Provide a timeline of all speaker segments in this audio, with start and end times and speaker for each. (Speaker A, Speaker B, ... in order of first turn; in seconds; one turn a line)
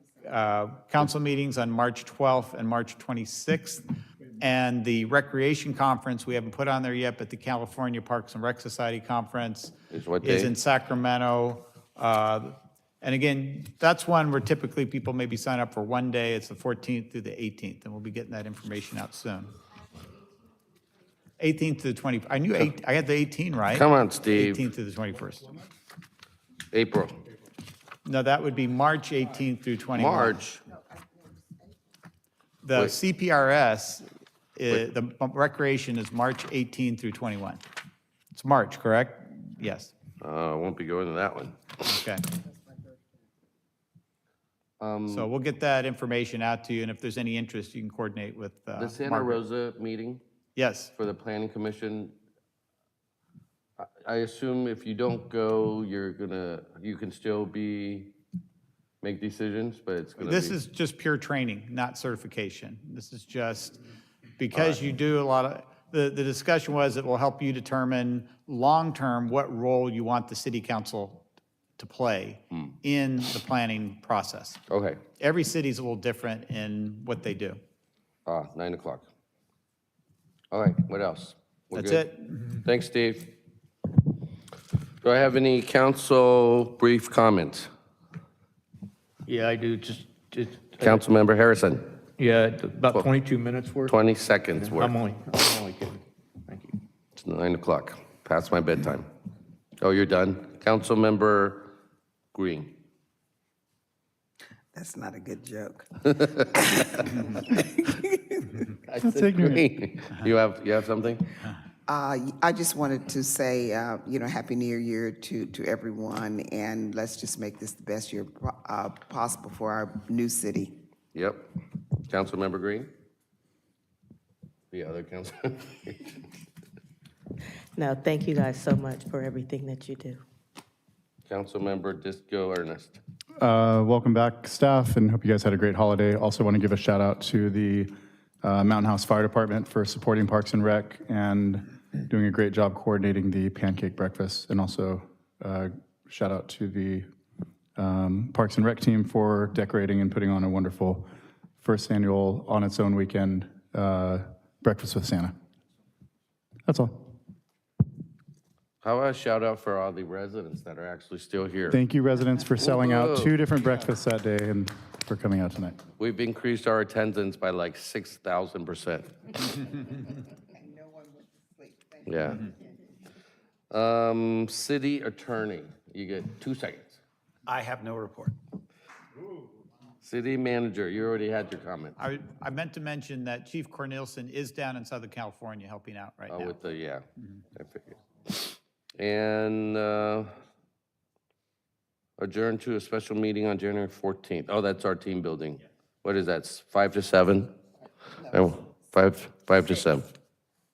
Speaker A: 0.2-3.9
Speaker A: 4.4-19.5
Speaker B: 9.9-10.5
Speaker A: 21.4-25.5
Speaker B: 23.7-24.6
Speaker B: 26.7-27.2
Speaker A: 28.1-30.4
Speaker B: 30.0-30.6
Speaker C: 30.6-31.8
Speaker A: 32.6-37.6
Speaker A: 38.3-39.9
Speaker B: 40.2-41.8
Speaker A: 41.9-42.2
Speaker C: 42.4-43.0
Speaker B: 44.8-45.3
Speaker A: 45.1-49.4
Speaker B: 48.8-50.2
Speaker A: 50.6-50.9
Speaker B: 51.0-52.1
Speaker B: 53.8-58.1
Speaker B: 59.0-60.6
Speaker A: 60.2-63.8
Speaker A: 64.4-71.2
Speaker B: 64.5-64.8
Speaker A: 71.8-74.6
Speaker B: 74.7-75.0
Speaker A: 75.2-77.6
Speaker B: 78.3-79.1
Speaker B: 80.5-83.3
Speaker A: 81.7-82.6
Speaker B: 85.0-87.7
Speaker D: 89.3-91.0
Speaker B: 90.8-92.0
Speaker D: 92.2-94.0
Speaker B: 93.8-95.0
Speaker D: 94.5-96.8
Speaker B: 97.2-99.1
Speaker B: 99.8-101.7
Speaker B: 102.3-102.8
Speaker C: 104.7-108.6
Speaker B: 108.9-111.4
Speaker E: 109.0-109.6
Speaker C: 111.9-120.8
Speaker B: 121.1-121.5
Speaker B: 122.1-122.9
Speaker B: 124.7-126.2
Speaker F: 127.8-130.2
Speaker B: 131.3-133.0
Speaker E: 133.4-147.1
Speaker E: 147.8-151.1
Speaker E: 151.6-155.3
Speaker E: 156.7-157.1
Speaker B: 158.8-161.8
Speaker E: 161.7-165.8
Speaker B: 162.6-163.3
Speaker B: 166.0-169.6
Speaker C: 169.6-172.9
Speaker B: 172.1-172.5
Speaker B: 173.7-177.0
Speaker A: 177.5-178.3
Speaker B: 180.0-182.0
Speaker A: 182.0-186.6
Speaker B: 186.3-187.0
Speaker B: 187.6-190.3
Speaker B: 192.2-197.5
Speaker B: 198.3-200.1